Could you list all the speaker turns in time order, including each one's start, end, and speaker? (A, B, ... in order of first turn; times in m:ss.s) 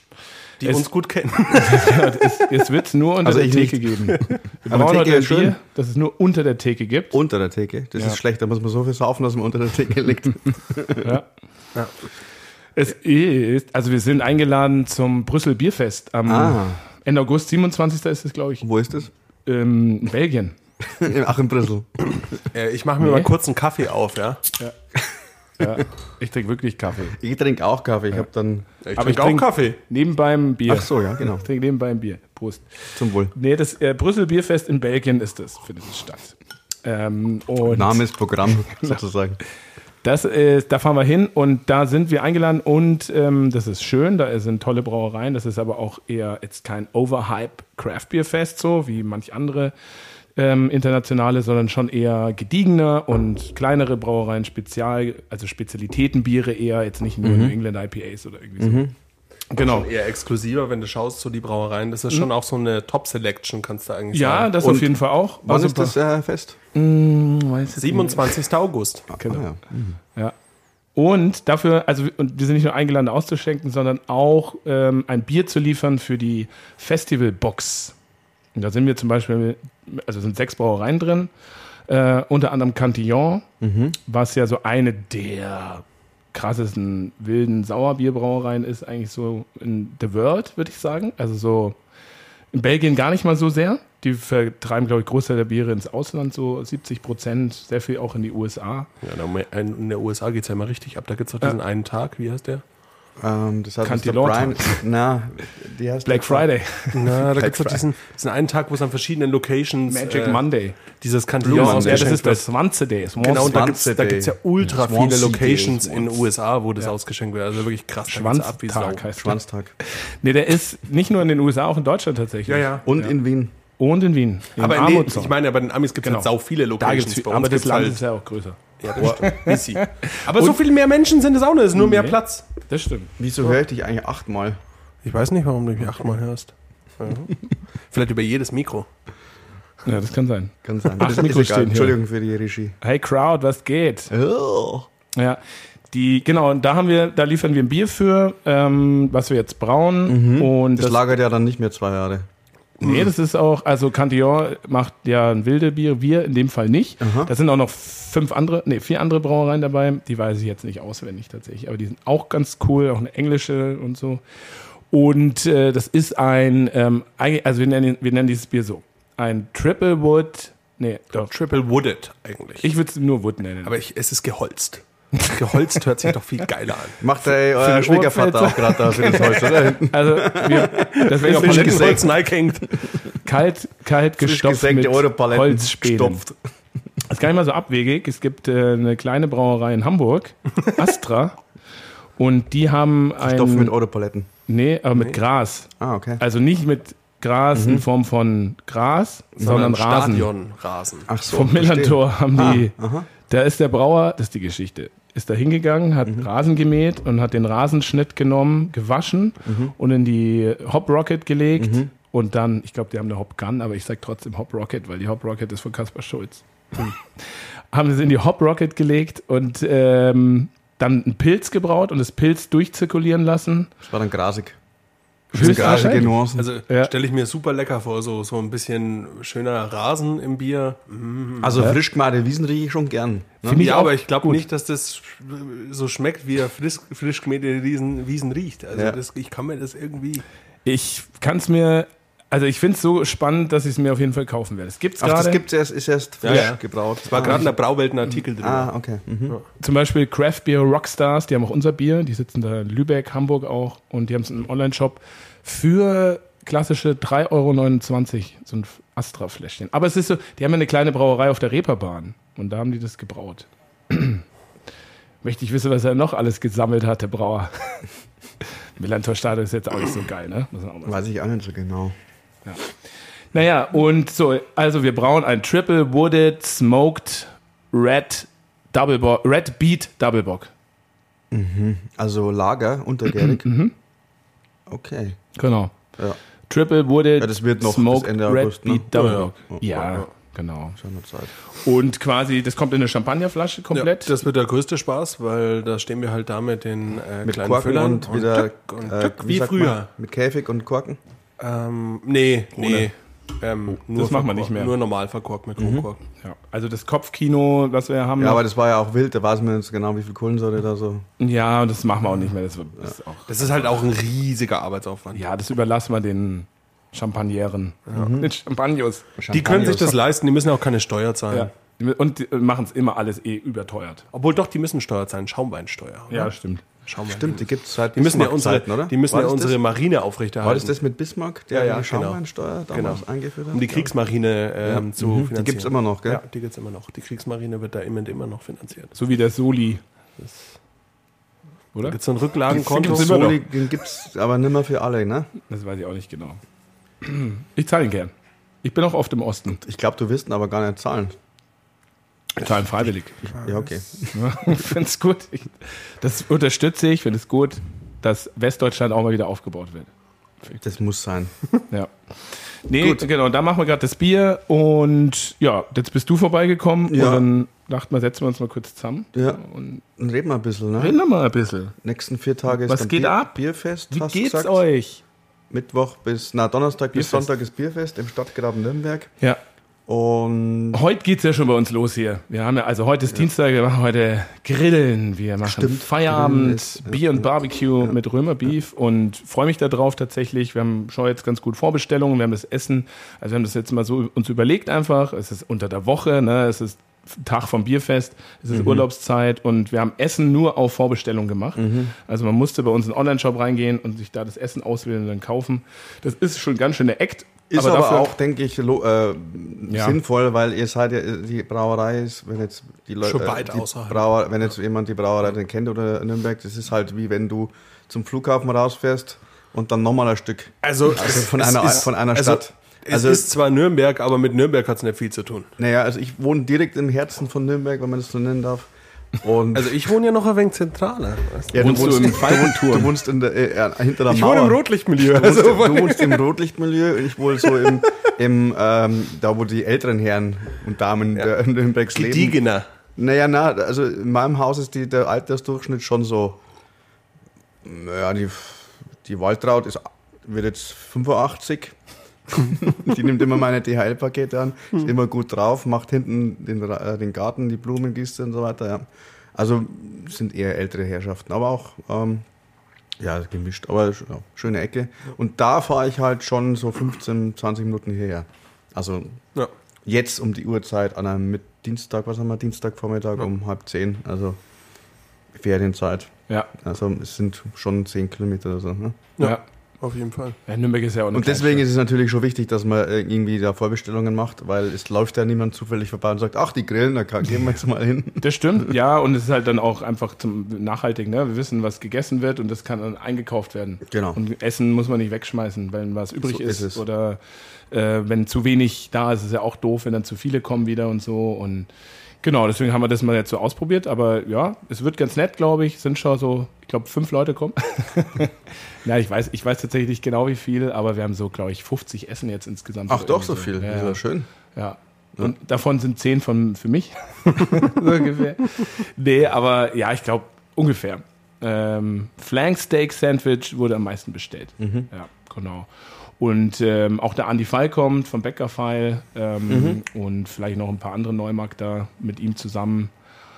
0:00.6-0:02.3 A
0:00.6-0:00.9 B
0:01.5-0:07.2 B
0:03.2-0:05.6 C
0:07.1-0:11.1 C
0:12.8-0:18.7 B
0:16.3-0:16.8 C
0:18.6-0:19.1 C
0:19.4-0:20.6 B
0:20.8-0:21.9 C
0:22.5-0:24.4 A
0:23.0-0:23.3 B
0:25.6-0:27.2 B
0:27.1-0:28.7 C
0:28.8-0:29.8 A
0:29.0-0:32.7 B
0:30.7-0:31.4 C
0:33.0-0:33.3 C
0:33.3-0:39.0 B
0:37.7-0:39.4 C
0:40.0-0:49.7 B
0:50.4-0:58.9 B
0:57.2-0:57.6 C
0:58.6-0:58.9 C
0:59.5-0:59.9 B
0:59.6-1:04.6 A
1:04.1-1:06.0 B
1:04.6-1:06.6 C
1:06.7-1:08.3 B
1:07.8-1:09.1 A
1:09.1-1:10.0 C
1:09.2-1:09.5 B
1:11.0-1:18.0 B
1:18.6-1:21.3 B
1:21.9-1:23.5 B
1:23.6-1:24.0 C
1:24.0-1:31.8 B
1:32.5-1:38.9 B
1:39.0-1:42.6 A
1:43.2-1:46.5 C
1:43.8-1:44.8 B
1:46.0-1:47.0 B
1:46.9-1:52.5 A
1:47.2-1:47.9 C
1:49.9-1:50.8 B
1:51.4-1:52.2 C
1:51.4-1:53.7 B
1:53.2-1:59.1 A
1:53.2-1:56.0 C
1:58.1-2:03.2 B
1:59.2-1:59.7 C
2:02.5-2:02.9 A
2:02.8-2:03.5 C
2:03.8-2:05.4 B
2:04.6-2:08.0 A
2:06.0-2:10.6 B
2:08.8-2:12.5 A
2:09.0-2:09.2 C
2:11.8-2:12.2 B
2:12.7-2:13.1 B
2:13.2-2:14.6 C
2:15.0-2:18.9 A
2:19.8-2:22.0 B
2:20.6-2:22.8 C
2:22.8-2:24.1 B
2:24.1-2:24.9 C
2:25.2-2:31.1 B
2:30.1-2:32.3 C
2:32.8-2:44.2 B
2:37.0-2:37.3 C
2:44.9-2:51.3 B
2:51.3-2:52.7 A
2:52.6-2:53.7 B
2:53.6-2:57.0 A
2:57.0-3:02.1 C
2:57.3-3:02.1 B
3:00.7-3:02.7 A
3:03.2-3:06.2 B
3:04.2-3:06.4 C
3:07.0-3:11.4 B
3:12.2-3:13.8 B
3:13.2-3:14.3 C
3:14.5-3:20.3 B
3:15.8-3:16.2 C
3:17.5-3:17.8 C
3:19.4-3:21.1 A
3:21.1-3:23.1 C
3:21.3-3:22.7 B
3:23.3-3:36.9 B
3:29.4-3:29.7 C
3:31.6-3:31.9 C
3:37.7-3:43.7 B
3:43.8-3:44.6 C
3:45.3-3:46.2 B
3:45.3-3:46.5 C
3:45.3-3:51.6 A
3:51.4-3:53.7 C
3:53.4-3:54.4 B
3:53.6-4:00.2 A
4:00.6-4:05.4 B
4:05.0-4:07.5 C
4:06.2-4:08.7 A
4:06.3-4:06.5 B
4:07.2-4:07.4 B
4:08.4-4:09.4 C
4:09.6-4:24.2 B
4:25.2-4:27.8 B
4:28.8-4:31.0 B
4:30.8-4:32.0 C
4:33.3-4:40.5 B
4:41.3-4:43.5 C
4:43.1-4:43.7 B
4:44.7-4:45.2 C
4:45.4-4:45.8 B
4:46.5-4:50.8 B
4:47.2-4:49.9 C
4:48.9-4:50.0 A
4:50.8-4:51.3 C
4:51.6-4:54.1 B
4:53.7-4:59.9 A
4:57.2-5:01.0 C
5:01.4-5:06.0 A
5:02.6-5:02.9 C
5:03.8-5:04.7 B
5:05.6-5:05.9 C
5:06.2-5:08.4 B
5:08.2-5:11.0 C
5:11.2-5:13.5 B
5:13.3-5:15.2 A
5:15.2-5:19.8 B
5:17.9-5:18.3 C
5:19.2-5:20.0 C
5:19.3-5:21.5 A
5:21.3-5:24.0 B
5:24.1-5:26.3 A
5:26.1-5:26.6 B
5:26.9-5:30.7 A
5:27.0-5:29.6 C
5:30.4-5:33.9 C
5:31.5-5:32.2 A
5:32.7-5:39.0 A
5:34.6-5:36.2 C
5:39.0-5:39.8 B
5:41.8-5:43.4 A
5:42.5-5:45.3 C
5:42.5-5:43.3 B
5:45.5-5:46.4 B
5:47.0-5:49.6 B
5:49.5-5:51.2 C
5:52.4-5:53.3 B
5:53.2-5:54.1 C
5:54.1-5:59.9 B
6:00.6-6:01.3 C
6:01.7-6:09.8 B
6:02.8-6:03.1 C
6:06.9-6:07.3 C
6:09.1-6:09.4 C
6:10.0-6:11.0 C
6:10.8-6:11.7 B
6:11.8-6:14.6 C
6:12.5-6:13.4 B
6:13.9-6:15.0 B
6:15.5-6:19.1 C
6:16.9-6:17.3 B
6:19.9-6:20.8 C
6:20.7-6:48.1 B
6:25.4-6:27.3 C
6:38.5-6:38.9 C
6:41.6-6:41.9 C
6:47.5-7:03.3 C
6:49.7-6:50.0 B
6:53.0-6:54.1 A
7:00.6-7:05.5 A
7:05.6-7:09.8 C
7:09.5-7:12.2 A
7:11.5-7:22.4 C
7:11.6-7:12.9 B
7:14.1-7:16.2 A
7:17.4-7:17.8 A
7:21.9-7:22.6 A
7:23.0-7:26.4 C
7:27.6-7:31.8 C
7:32.3-7:42.2 C
7:43.0-7:49.2 C
7:49.8-7:54.4 C
7:55.3-7:59.1 C
7:59.2-8:00.4 A
8:00.5-8:01.7 B
8:01.1-8:08.7 C
8:08.2-8:17.2 B
8:13.9-8:14.2 C
8:16.2-8:16.8 C
8:17.7-8:21.7 B
8:22.2-8:34.0 B
8:32.9-8:34.3 C
8:34.6-8:45.7 B
8:44.6-8:44.9 C
8:46.2-8:52.9 B
8:49.5-8:49.8 C